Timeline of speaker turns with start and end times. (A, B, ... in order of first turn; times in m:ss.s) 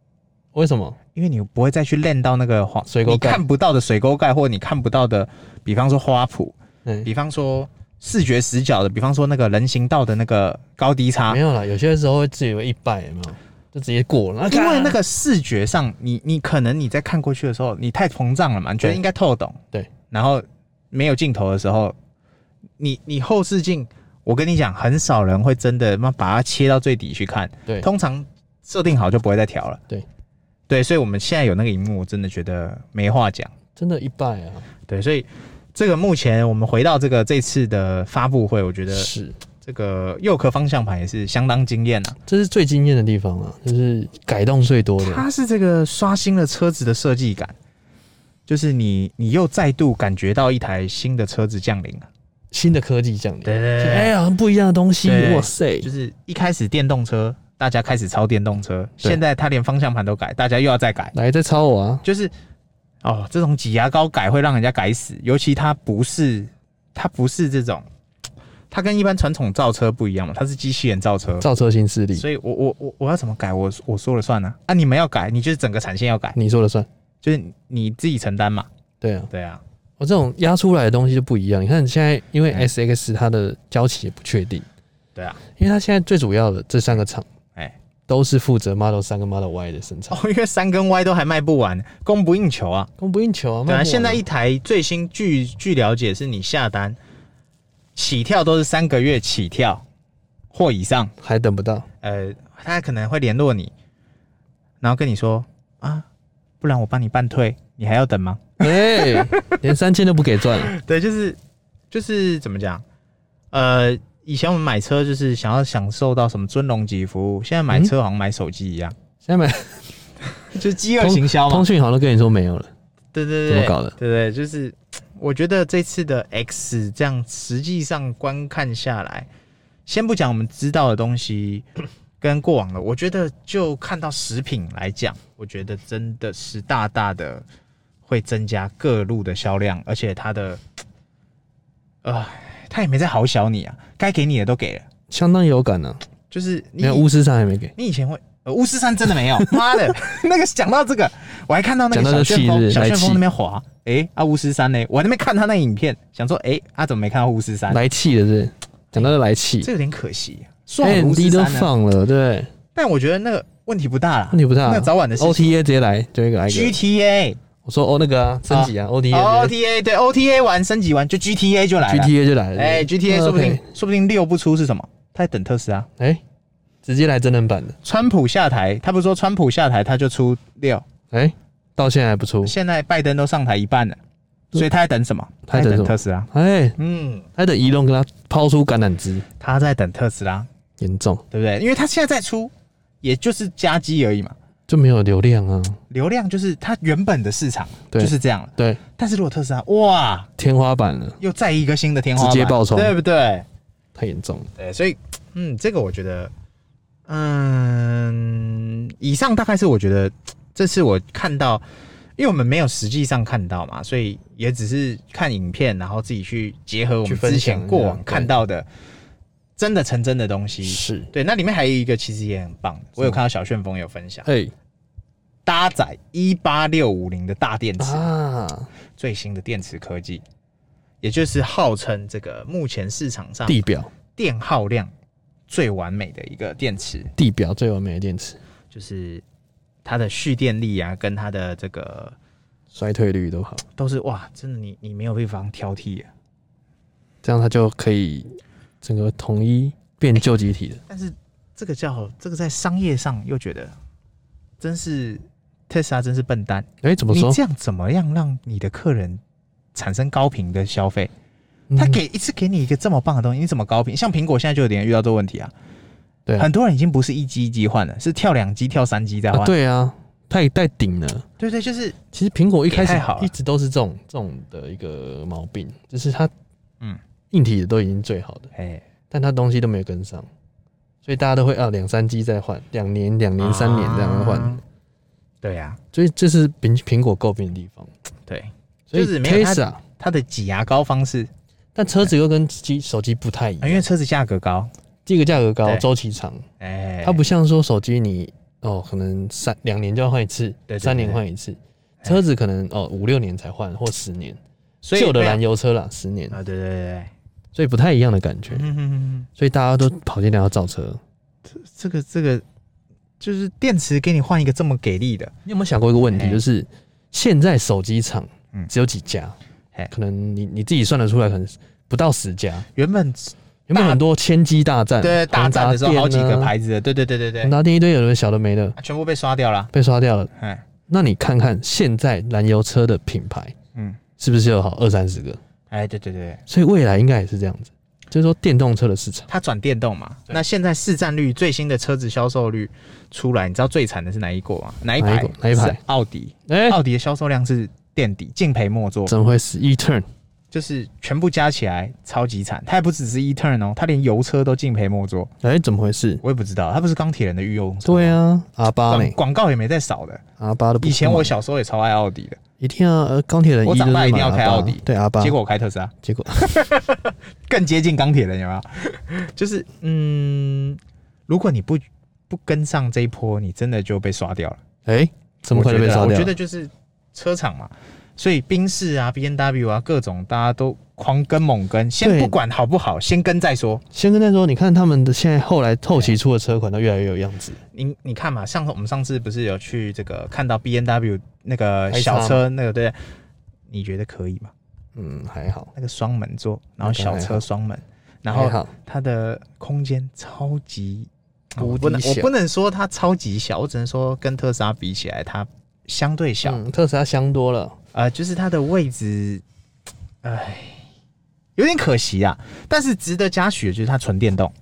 0:00.5-0:01.0 A
0:01.2-0:11.4 B
0:02.9-0:03.4 A
0:11.3-0:15.0 A
0:14.5-0:22.0 B
0:22.8-0:29.8 B
0:30.7-0:33.5 B
0:33.8-0:34.7 A
0:34.9-0:39.1 B
0:38.9-0:39.4 A
0:39.6-0:42.2 B
0:42.3-0:45.3 A
0:45.0-0:47.6 B
0:48.5-0:52.1 B
0:52.5-0:55.9 A
0:53.4-0:54.2 B
0:55.0-1:01.2 B
1:01.1-1:02.0 A
1:02.0-1:02.3 B
1:03.0-1:07.9 B
1:08.7-1:11.5 B
1:11.4-1:12.2 A
1:12.2-1:16.4 B
1:16.4-1:16.9 A
1:17.2-1:18.7 B
1:19.0-1:19.3 A
1:19.3-1:19.6 B
1:20.0-1:24.7 A
1:25.2-1:25.4 B
1:25.6-1:27.3 A
1:28.1-1:30.2 A
1:30.1-1:32.9 B
1:33.0-1:34.2 A
1:33.7-1:37.0 B
1:38.0-1:39.8 B
1:40.5-1:41.1 B
1:41.2-1:41.9 A
1:42.0-1:43.7 B
1:44.8-1:46.1 B
1:46.6-1:49.6 B
1:48.6-1:50.7 A
1:50.6-1:51.4 B
1:51.9-1:52.8 B
1:53.5-1:58.9 B
1:59.2-1:59.9 A
2:00.5-2:01.7 B
2:01.0-2:02.7 A
2:03.1-2:09.3 B
2:03.5-2:04.0 A
2:09.9-2:11.7 B
2:12.2-2:17.4 B
2:18.1-2:20.6 B
2:22.0-2:24.9 B
2:25.1-2:26.0 A
2:26.3-2:27.1 B
2:26.8-2:27.7 A
2:27.8-2:37.8 B
2:31.9-2:33.2 A
2:37.7-2:39.7 A
2:39.6-2:41.7 B
2:40.8-2:42.5 A
2:42.8-2:45.5 B
2:44.3-2:46.8 A
2:46.5-2:47.4 B
2:47.6-2:49.5 A
2:48.5-2:55.9 B
2:51.8-2:53.6 A
2:56.8-2:57.8 A
2:57.8-3:00.8 B
3:01.1-3:02.5 A
3:02.4-3:04.0 B
3:04.5-3:07.3 B
3:05.5-3:06.8 A
3:07.4-3:09.3 A
3:09.4-3:10.5 B
3:10.8-3:11.2 A
3:11.3-3:14.4 B
3:14.7-3:15.8 A
3:15.9-3:20.3 B
3:17.9-3:18.8 A
3:20.4-3:21.2 A
3:21.2-3:23.4 B
3:22.2-3:22.9 A
3:24.0-3:24.5 A
3:24.6-3:26.3 B
3:27.1-3:31.6 B
3:32.2-3:38.7 B
3:37.0-3:38.3 A
3:39.6-3:44.3 B
3:40.6-3:41.1 A
3:44.3-3:44.5 A
3:45.5-3:48.1 B
3:47.8-3:48.7 A
3:49.0-3:50.2 B
3:51.0-3:53.6 B
3:53.5-3:53.9 A
3:54.2-3:54.9 B
3:55.5-3:57.1 B
3:57.2-3:58.4 A
3:58.7-3:59.2 B
3:59.8-4:02.2 B
4:02.7-4:03.6 A
4:03.8-4:06.1 B
4:07.2-4:10.8 A
4:10.9-4:13.7 B
4:14.6-4:19.2 B
4:16.8-4:17.4 A
4:19.8-4:21.1 B
4:21.7-4:22.0 A
4:21.8-4:25.5 B
4:26.4-4:29.5 B
4:29.3-4:31.3 A
4:31.4-4:32.0 B
4:32.1-4:36.3 A
4:32.7-4:33.3 B
4:37.3-4:38.5 A
4:38.5-4:38.8 B
4:39.1-4:40.3 A
4:41.0-4:44.6 A
4:43.4-4:44.6 B
4:45.4-4:45.8 B
4:45.9-4:47.9 A
4:48.3-4:51.3 B
4:48.9-4:49.8 A
4:51.8-4:53.9 A
4:53.6-4:54.7 B
4:55.1-4:56.4 A
4:56.6-4:57.2 B
4:57.0-5:04.4 A
5:00.7-5:01.2 B
5:04.8-5:05.4 B
5:05.0-5:06.4 A
5:06.3-5:07.1 B
5:07.5-5:08.7 A
5:08.5-5:09.3 B
5:09.4-5:11.0 A
5:11.5-5:12.4 B
5:13.2-5:15.3 B
5:15.5-5:19.4 A
5:16.1-5:16.4 B
5:19.9-5:22.7 A
5:22.8-5:24.0 B
5:23.7-5:26.5 A
5:25.0-5:27.6 B
5:27.4-5:28.8 A
5:28.8-5:29.7 B
5:29.7-5:30.3 A
5:30.4-5:30.6 B
5:30.9-5:33.6 A
5:34.2-5:35.4 A
5:35.7-5:36.4 B
5:36.5-5:39.3 A
5:39.3-5:49.1 B
5:45.0-5:45.8 A
5:46.5-5:46.8 A
5:49.1-5:50.0 A
5:50.5-5:55.3 B
5:55.4-5:56.2 A
5:56.2-5:58.2 B
5:57.8-5:59.2 A
5:58.9-6:00.2 B
6:00.4-6:01.4 A
6:00.8-6:02.4 B
6:02.6-6:05.4 A
6:03.7-6:14.6 B
6:06.0-6:06.6 A
6:14.9-6:16.4 A
6:15.5-6:23.8 B
6:22.0-6:22.4 A
6:23.9-6:27.6 A
6:27.7-6:33.0 B
6:31.9-6:32.4 A
6:33.7-6:34.5 B
6:35.0-6:35.7 A
6:35.8-6:46.6 B
6:36.8-6:37.4 A
6:38.3-6:38.7 A
6:41.6-6:42.3 A
6:46.4-6:47.8 A
6:47.9-6:49.4 B
6:50.2-6:50.8 B
6:51.6-6:54.5 B